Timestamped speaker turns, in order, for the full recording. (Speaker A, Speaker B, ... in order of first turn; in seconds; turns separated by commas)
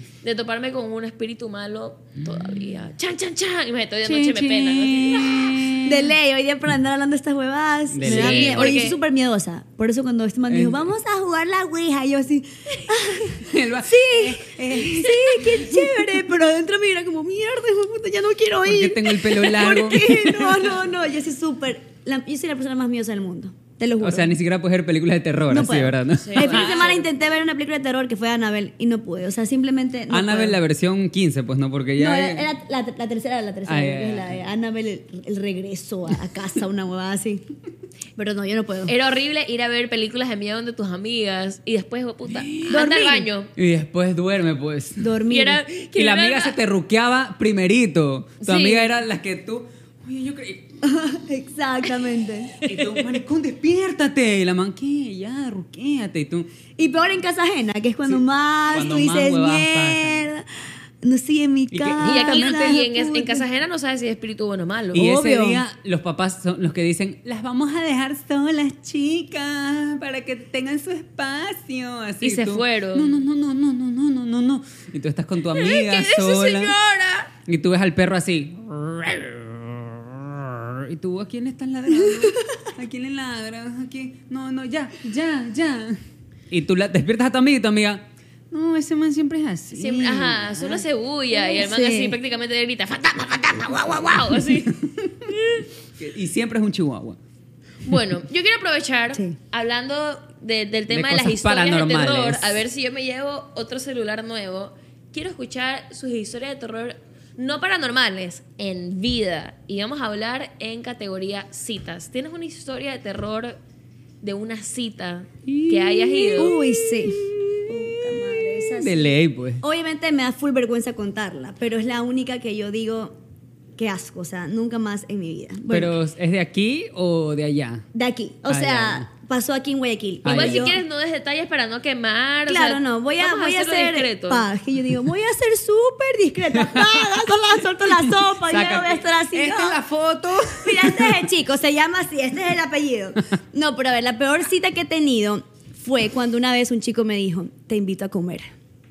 Speaker A: 0.2-5.7, Speaker B: 4.0-6.1, Speaker C: 5.8-24.4, Speaker B: 7.9-8.8, Speaker A: 8.0-9.0, Speaker B: 10.5-10.9, Speaker B: 13.4-16.0, Speaker B: 18.6-20.8, Speaker B: 24.0-26.9, Speaker C: 25.5-30.6, Speaker A: 26.1-27.1, Speaker B: 30.1-32.5, Speaker C: 32.0-37.5, Speaker B: 33.6-34.4, Speaker C: 38.1-38.9, Speaker A: 38.9-43.5, Speaker B: 42.3-42.8, Speaker C: 42.7-43.3, Speaker B: 43.5-45.1, Speaker C: 45.0-45.6, Speaker A: 45.3-46.5, Speaker B: 45.9-50.8, Speaker A: 48.4-48.9, Speaker C: 50.8-52.5, Speaker A: 52.6-52.9, Speaker B: 52.6-56.5, Speaker C: 56.8-60.5, Speaker B: 58.1-60.3, Speaker C: 61.0-63.5, Speaker B: 61.7-62.8, Speaker A: 62.0-65.1, Speaker B: 64.9-76.7, Speaker C: 64.9-65.6, Speaker A: 72.2-73.2, Speaker A: 75.5-77.3, Speaker B: 77.5-86.0, Speaker C: 82.0-82.3, Speaker B: 86.5-90.8, Speaker A: 89.7-94.7, Speaker C: 91.3-92.2, Speaker B: 94.3-95.3, Speaker A: 95.3-95.6, Speaker B: 96.0-97.2, Speaker A: 97.8-113.6, Speaker B: 100.9-102.6, Speaker A: 114.2-116.5, Speaker B: 115.5-119.6, Speaker C: 116.4-123.2, Speaker C: 123.8-126.0, Speaker B: 125.7-127.8, Speaker C: 127.9-130.8, Speaker B: 128.5-129.1, Speaker B: 130.2-130.7, Speaker A: 130.2-134.5, Speaker C: 132.5-139.8, Speaker B: 136.5-141.3, Speaker C: 140.4-148.5